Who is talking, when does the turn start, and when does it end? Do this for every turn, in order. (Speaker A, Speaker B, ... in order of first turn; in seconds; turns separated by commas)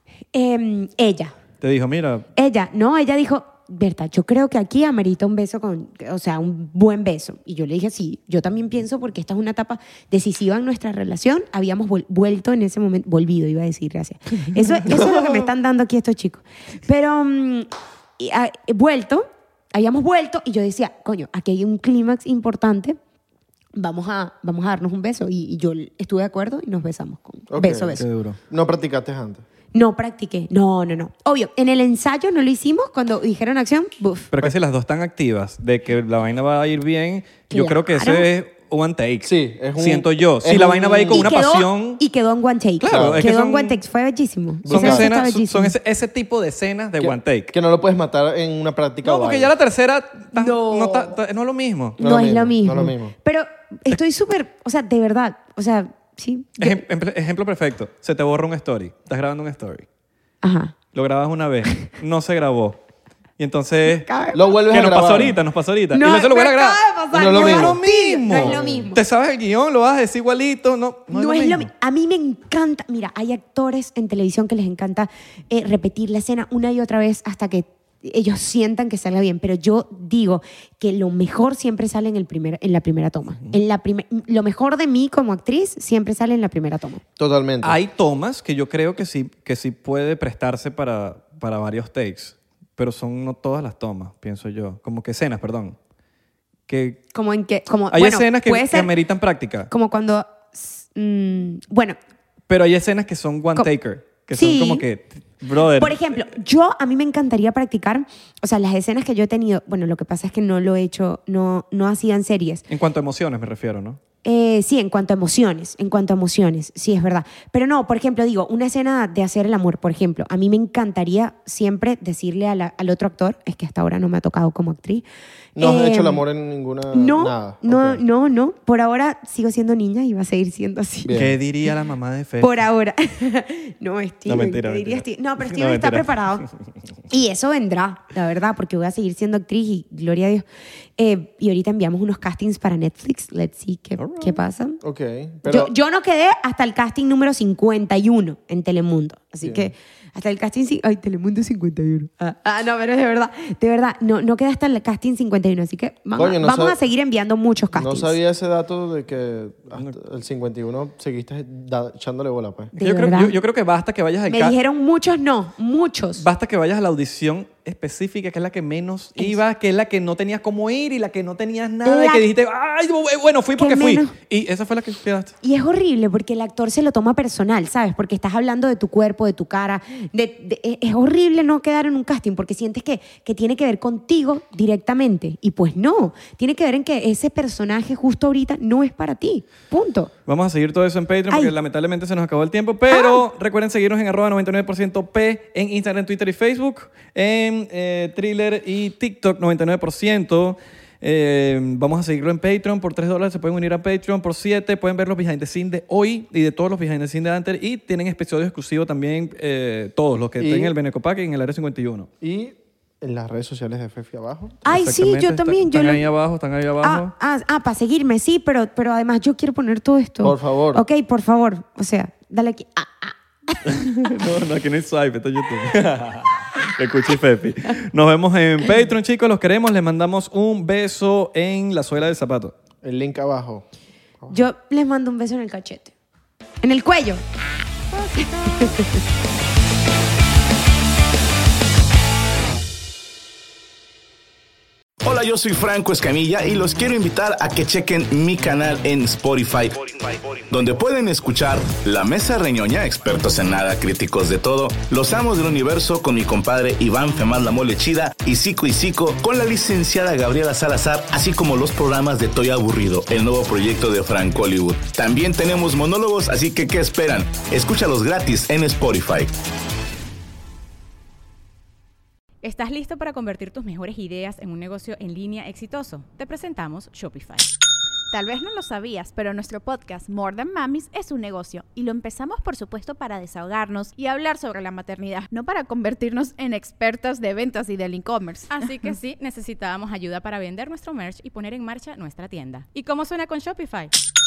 Speaker A: 0.3-1.3, Speaker B: 1.6-2.2, Speaker A: 2.4-23.0, Speaker A: 23.7-28.0, Speaker C: 27.5-29.4, Speaker B: 27.9-28.4, Speaker A: 29.7-34.3, Speaker B: 34.3-42.0, Speaker A: 37.5-38.3, Speaker C: 39.2-41.3, Speaker A: 40.5-45.7, Speaker B: 42.8-43.8, Speaker C: 42.9-43.2, Speaker C: 44.6-45.1, Speaker B: 44.7-47.5, Speaker C: 47.0-49.5, Speaker B: 49.0-52.0, Speaker A: 50.3-51.1, Speaker C: 52.0-53.1, Speaker A: 52.0-56.8, Speaker B: 56.6-59.9, Speaker A: 60.4-60.7, Speaker B: 60.9-62.8, Speaker B: 63.4-64.1, Speaker A: 63.9-64.4, Speaker C: 64.3-65.4, Speaker B: 64.7-71.7, Speaker A: 65.9-69.0, Speaker C: 67.1-68.8, Speaker A: 71.1-87.0, Speaker C: 87.2-87.8, Speaker B: 87.6-95.8, Speaker B: 96.7-97.0, Speaker A: 97.1-98.9, Speaker B: 97.9-99.7, Speaker A: 99.7-102.0, Speaker B: 102.5-106.2, Speaker A: 104.3-104.8, Speaker A: 105.8-112.7, Speaker B: 112.7-114.0, Speaker A: 114.2-125.0, Speaker C: 125.5-128.0, Speaker A: 125.6-126.2, Speaker A: 126.9-131.2, Speaker C: 131.0-131.4, Speaker B: 131.1-132.6, Speaker A: 132.4-136.4, Speaker B: 134.3-136.1, Speaker A: 137.1-140.4, Speaker A: 141.0-144.8, Speaker B: 144.0-144.4, Speaker C: 144.8-145.7, Speaker A: 145.4-158.1, Speaker C: 149.4-149.7, Speaker C: 156.2-156.8, Speaker C: 157.7-162.7, Speaker B: 162.7-164.5, Speaker A: 162.8-163.4, Speaker A: 164.3-166.2, Speaker B: 166.2-175.3, Speaker A: 171.8-172.3, Speaker A: 173.6-174.1, Speaker A: 175.4-190.1, Speaker B: 190.3-212.1, Speaker A: 192.9-193.2, Speaker C: 210.4-210.7, Speaker C: 212.2-214.7, Speaker A: 214.6-216.0, Speaker B: 214.7-217.1, Speaker A: 216.8-223.6, Speaker C: 220.2-220.8, Speaker B: 223.6-232.5, Speaker C: 232.8-233.7, Speaker A: 234.3-235.9, Speaker A: 236.6-237.2, Speaker A: 237.9-239.0, Speaker D: 245.0-269.3, Speaker E: 272.4-277.5, Speaker F: 278.1-288.9, Speaker E: 288.5-293.9